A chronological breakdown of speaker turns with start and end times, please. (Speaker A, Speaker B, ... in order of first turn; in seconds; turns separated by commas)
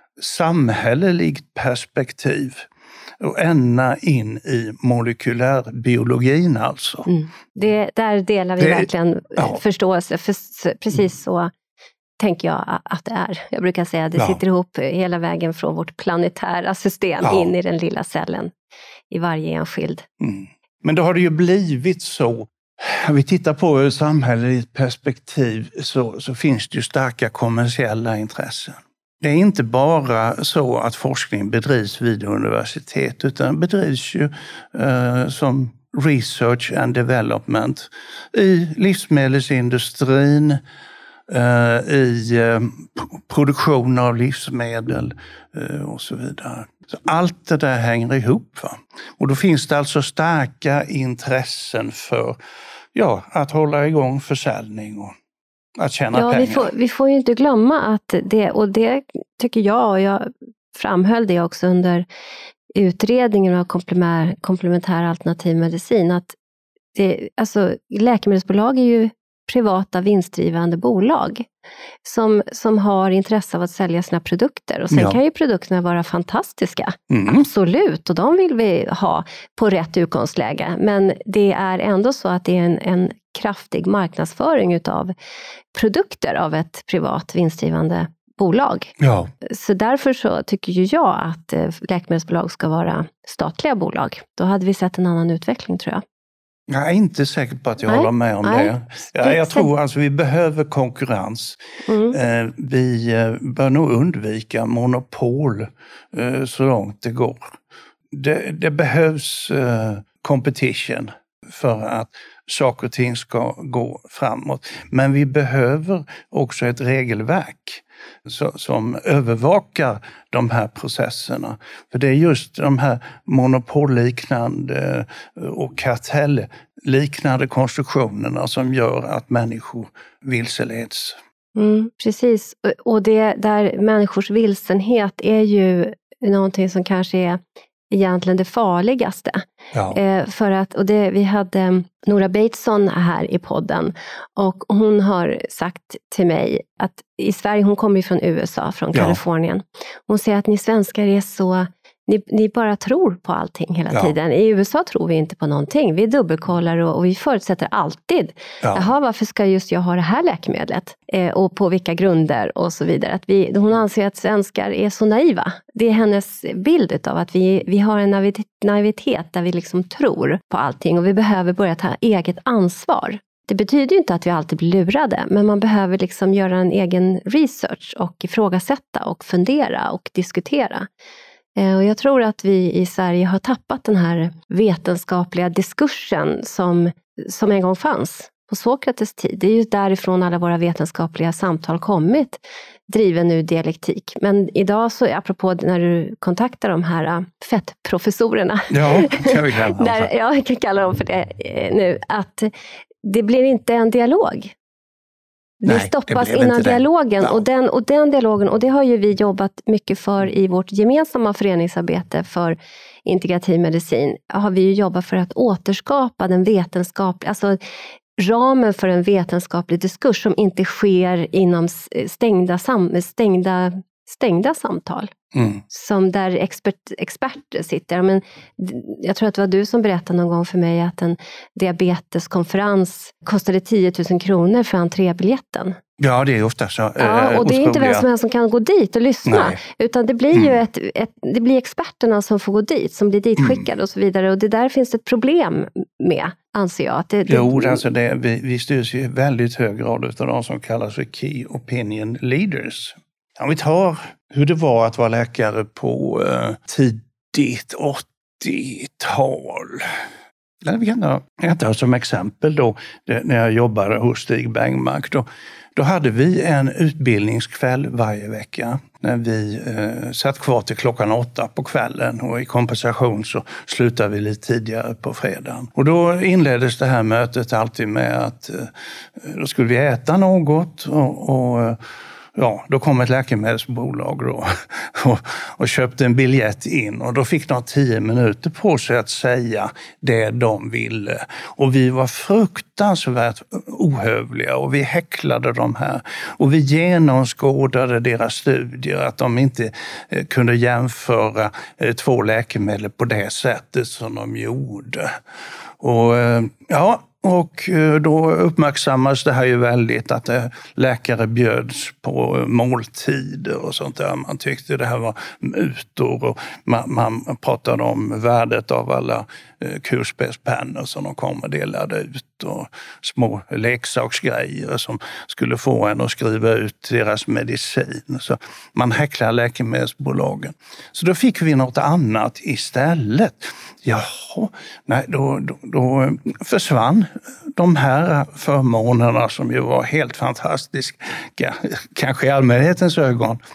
Speaker A: 0.2-2.7, Speaker A: 3.2-7.1, Speaker B: 7.1-11.5, Speaker A: 8.6-9.6, Speaker B: 12.2-18.5, Speaker A: 17.2-17.5, Speaker B: 19.1-20.1, Speaker A: 20.2-40.6, Speaker A: 41.3-52.4, Speaker A: 52.9-55.1, Speaker A: 55.8-56.7, Speaker B: 56.1-62.1, Speaker B: 62.7-66.3, Speaker B: 66.9-71.5, Speaker B: 72.0-85.1, Speaker A: 74.9-75.2, Speaker A: 77.1-77.5, Speaker B: 85.7-88.9, Speaker A: 89.0-89.3, Speaker B: 89.4-96.0, Speaker A: 96.7-101.6, Speaker B: 97.8-99.7, Speaker B: 101.9-102.2, Speaker A: 102.1-107.5, Speaker A: 108.1-131.2, Speaker B: 131.6-180.9, Speaker A: 139.7-140.0, Speaker A: 148.9-149.2, Speaker A: 158.6-158.9, Speaker B: 181.6-202.5, Speaker A: 198.7-200.1, Speaker B: 203.0-204.5, Speaker B: 205.6-217.6, Speaker A: 205.7-207.4, Speaker B: 218.2-225.1, Speaker A: 225.3-225.6, Speaker B: 225.7-235.8, Speaker A: 236.0-238.0, Speaker B: 237.0-247.8, Speaker A: 239.2-239.6, Speaker A: 243.4-243.6, Speaker A: 247.3-259.9, Speaker A: 260.6-281.8, Speaker A: 282.3-305.1, Speaker A: 305.8-343.4